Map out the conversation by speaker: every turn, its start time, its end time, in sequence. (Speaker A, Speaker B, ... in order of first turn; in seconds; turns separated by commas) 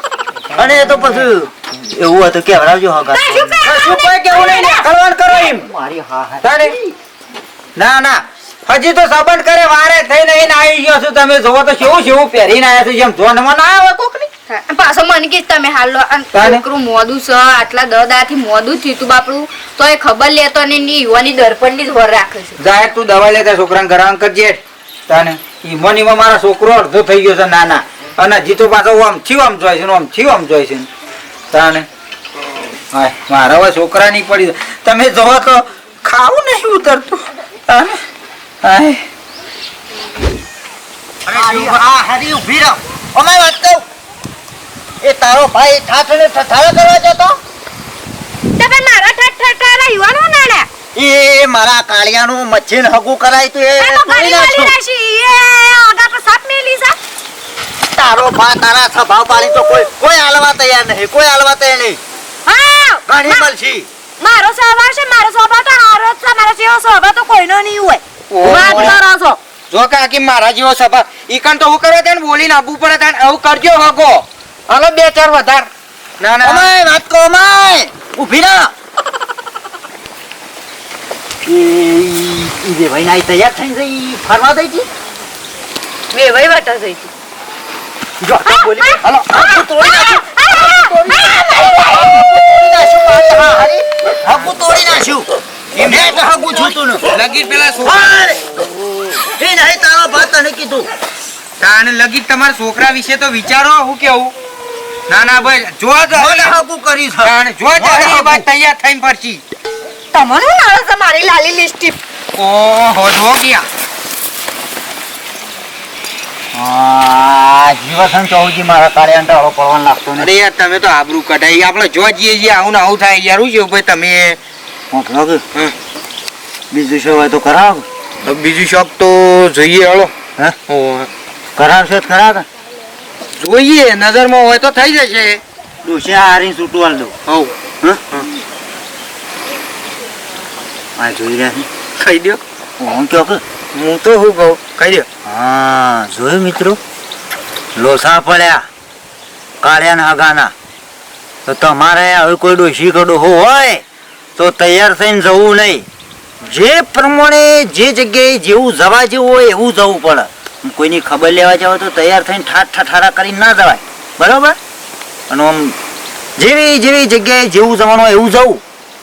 Speaker A: 0.6-3.6, Speaker B: 3.1-4.8, Speaker C: 3.6-5.7, Speaker A: 5.3-6.9, Speaker C: 6.4-6.7, Speaker C: 7.8-14.3, Speaker D: 14.5-22.6, Speaker C: 16.3-16.6, Speaker C: 22.6-30.9, Speaker C: 31.5-31.9, Speaker C: 32.9-38.0, Speaker C: 38.6-39.0, Speaker A: 41.2-43.8, Speaker E: 41.4-41.7, Speaker A: 45.0-47.4, Speaker B: 48.6-50.7, Speaker A: 50.9-54.8, Speaker B: 53.8-57.0, Speaker A: 57.9-62.0, Speaker B: 62.5-63.5, Speaker A: 63.1-63.9, Speaker B: 64.2-69.4, Speaker E: 68.3-69.0, Speaker A: 68.5-69.0, Speaker E: 69.7-75.7, Speaker E: 76.2-76.7, Speaker A: 76.4-78.7, Speaker A: 81.4-84.9, Speaker B: 86.1-87.1, Speaker A: 88.2-97.1, Speaker B: 88.4-92.2, Speaker E: 95.8-96.5, Speaker E: 97.1-98.2, Speaker A: 97.8-98.4, Speaker A: 99.2-100.9, Speaker E: 101.6-104.3, Speaker E: 105.1-106.5, Speaker A: 106.1-108.4, Speaker E: 107.2-109.4, Speaker B: 110.1-112.0, Speaker E: 112.3-113.7, Speaker A: 116.5-120.3, Speaker E: 120.2-124.4, Speaker A: 124.9-125.4, Speaker A: 126.7-127.8, Speaker E: 128.2-130.1, Speaker E: 130.7-131.1, Speaker A: 131.6-132.4, Speaker E: 133.3-135.4, Speaker A: 135.8-137.1, Speaker E: 137.3-137.5, Speaker A: 141.0-141.7, Speaker E: 142.0-142.4, Speaker A: 142.8-143.4, Speaker E: 143.7-145.1, Speaker A: 145.2-146.8, Speaker A: 147.8-148.6, Speaker A: 149.6-150.5, Speaker A: 151.4-153.8, Speaker A: 154.3-155.8, Speaker A: 156.4-164.6, Speaker A: 165.3-165.8, Speaker A: 166.4-168.6